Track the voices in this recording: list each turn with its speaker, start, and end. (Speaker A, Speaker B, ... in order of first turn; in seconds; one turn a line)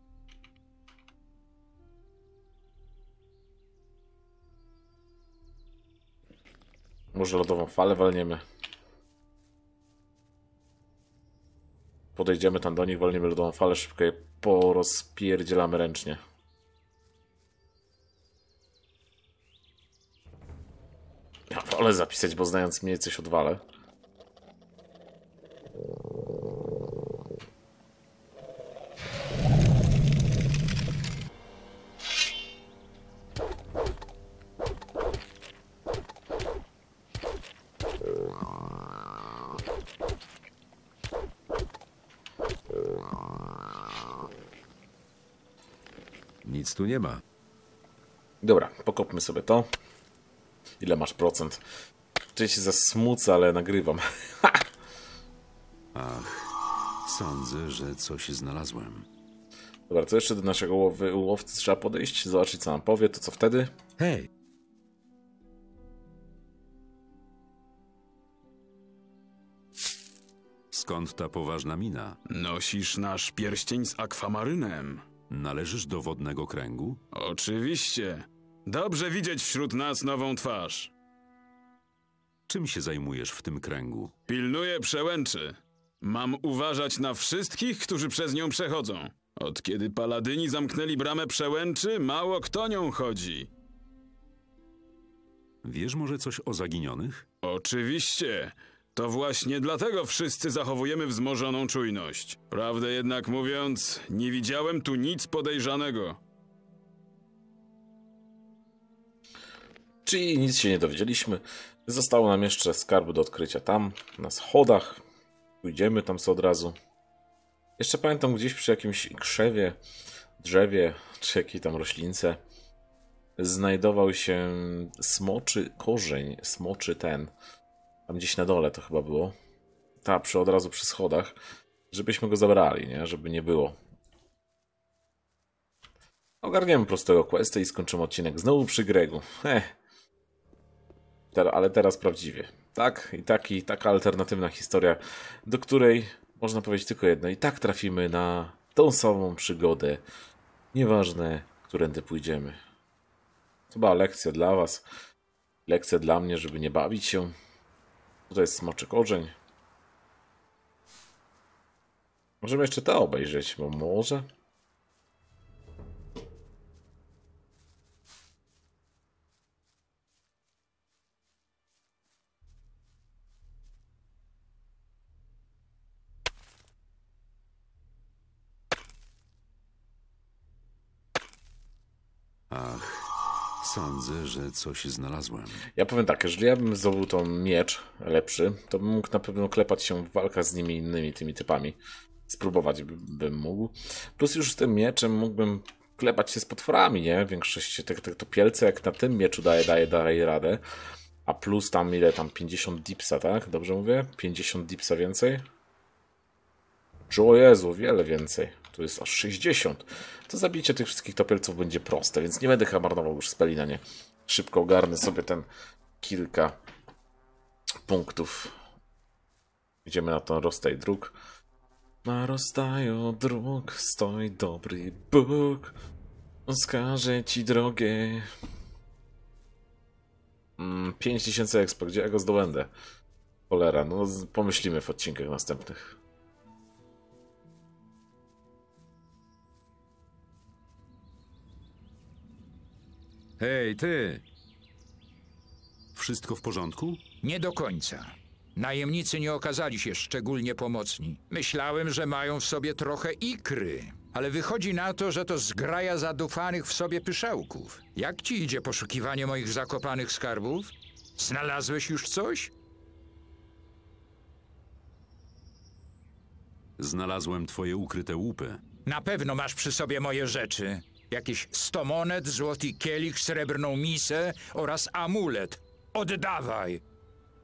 Speaker A: 7.1-8.4
Speaker A: 12.2-16.2
Speaker A: 21.5-23.6
Speaker B: 46.4-47.2
Speaker A: 48.4-49.7
Speaker A: 50.8-51.6
Speaker A: 52.4-54.7
Speaker B: 56.0-56.5
Speaker B: 57.0-59.1
Speaker A: 59.9-63.7
Speaker B: 64.0-64.3
Speaker B: 70.7-72.2
Speaker C: 72.3-75.0
Speaker B: 75.3-77.0
Speaker C: 77.1-80.9
Speaker B: 82.5-84.1
Speaker C: 84.3-93.5
Speaker B: 95.6-97.3
Speaker C: 97.4-106.2
Speaker A: 110.0-115.0
Speaker A: 115.6-116.8
Speaker A: 117.8-119.8
Speaker A: 120.4-122.4
Speaker A: 123.4-127.3
Speaker A: 128.1-129.3
Speaker A: 130.0-131.4
Speaker A: 131.9-133.8
Speaker A: 136.4-139.7
Speaker A: 141.3-150.0
Speaker A: 150.7-152.6
Speaker A: 153.7-154.8
Speaker A: 155.7-157.3
Speaker A: 158.3-159.3
Speaker A: 162.4-164.3
Speaker B: 182.5-183.1
Speaker B: 183.6-185.7
Speaker A: 185.8-200.6
Speaker A: 201.2-205.4
Speaker A: 207.1-215.5
Speaker A: 216.0-216.6
Speaker A: 217.8-218.6
Speaker A: 219.8-221.2
Speaker A: 222.1-225.8
Speaker A: 226.5-228.3
Speaker A: 230.6-232.7
Speaker A: 233.5-236.0
Speaker B: 243.4-244.2
Speaker B: 245.9-247.0
Speaker D: 247.2-262.5
Speaker B: 266.8-268.6
Speaker D: 268.9-276.8